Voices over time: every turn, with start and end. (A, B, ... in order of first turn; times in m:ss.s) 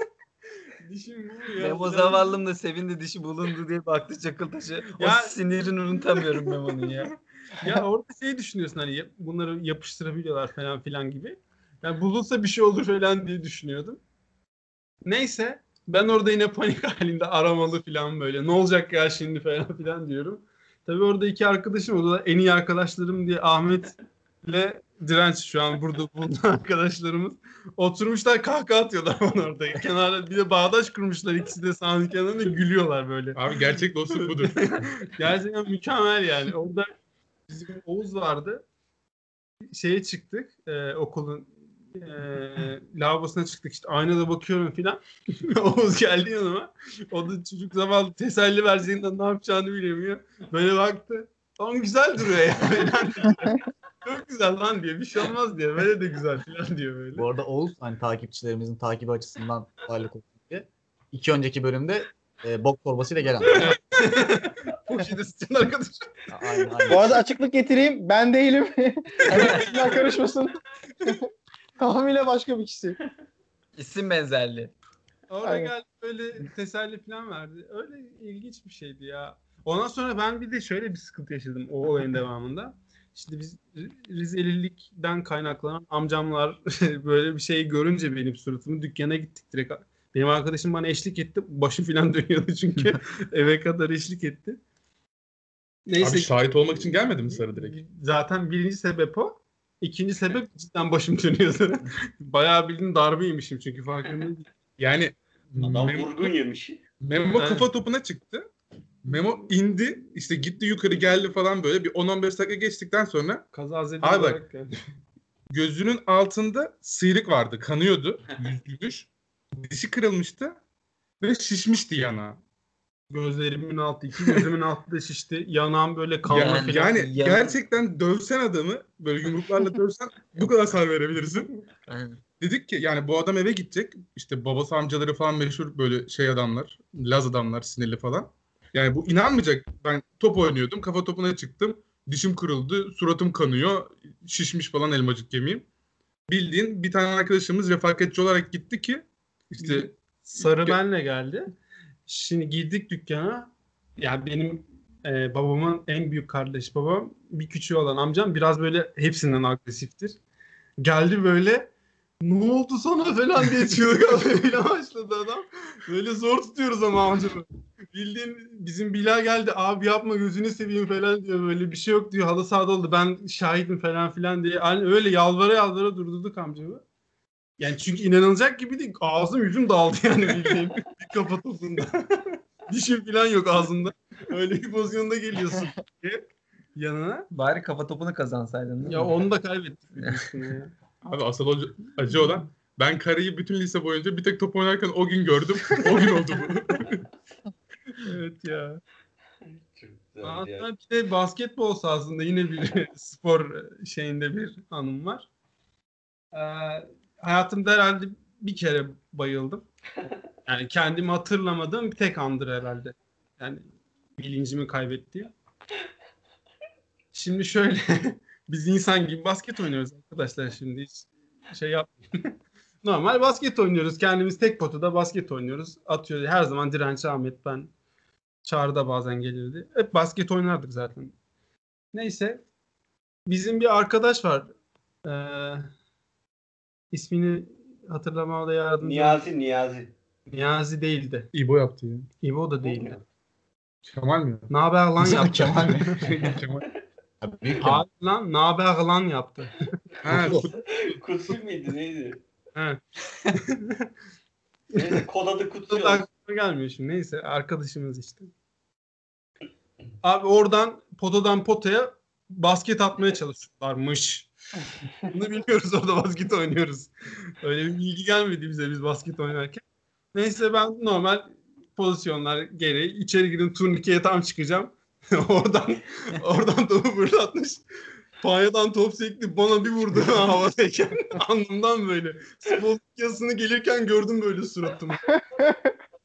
0:00.8-0:02.3 A
0:01.6-0:07.0 B
0:04.9-0:05.4 A
0:06.1-0:14.0 A
0:15.0-0:33.5 A
0:33.3-0:34.8 C
0:34.2-0:36.9 A
0:37.5-0:38.6 A
0:39.6-0:57.3 A
0:57.1-1:03.8 D
1:03.5-1:06.9 A
1:06.3-1:07.2 D
1:06.9-1:11.2 E
1:11.8-1:13.0 E
1:13.8-1:14.7 B
1:15.3-1:34.6 A
1:35.9-1:36.4 A
1:36.0-1:37.8 C
1:37.3-1:44.5 A
1:44.8-1:46.3 C
1:45.6-1:46.8 F
1:47.0-1:48.5 C
1:47.4-1:47.6 A
1:49.0-1:53.4 C
1:53.5-1:54.8 A
1:54.0-1:54.4 C
1:55.5-2:00.6 C
2:01.2-2:02.4 C
2:03.1-2:07.0 A
2:06.3-2:11.5 C
2:06.3-2:07.5 B
2:11.9-2:12.2 B
2:12.4-2:25.6 C
2:26.3-2:29.0 C
2:29.5-2:31.5 A
2:29.6-2:30.8 C
2:32.1-2:40.2 A
2:40.8-2:56.8 A
2:57.6-3:07.3 A
3:07.3-3:09.1 B
3:08.8-3:10.7 A
3:11.1-3:17.0 C
3:15.8-3:16.1 A
3:18.0-3:18.8 A
3:19.7-3:20.7 F
3:20.2-3:25.2 A
3:26.3-3:29.6 A
3:30.5-3:33.7 A
3:34.2-3:35.3 A
3:37.1-3:47.7 A
3:48.4-3:51.1 A
3:51.9-3:52.4 A
3:53.3-3:54.5 A
3:55.0-3:55.7 A
3:56.9-3:59.2 A
3:58.8-3:59.9 F
4:00.3-4:01.3 A
4:01.3-4:02.1 C
4:02.2-4:03.0 A
4:02.6-4:03.0 F
4:03.9-4:04.5 C
4:04.5-4:06.4 A
4:05.0-4:06.0 D
4:06.2-4:06.6 C
4:07.2-4:07.8 D
4:07.6-4:09.6 A
4:10.0-4:10.9 C
4:10.1-4:10.4 D
4:10.1-4:12.2 F
4:12.5-4:13.9 A
4:14.7-4:16.1 F
4:15.7-4:18.3 A
4:20.0-4:24.3 A
4:25.0-4:37.6 A
4:38.2-4:45.0 A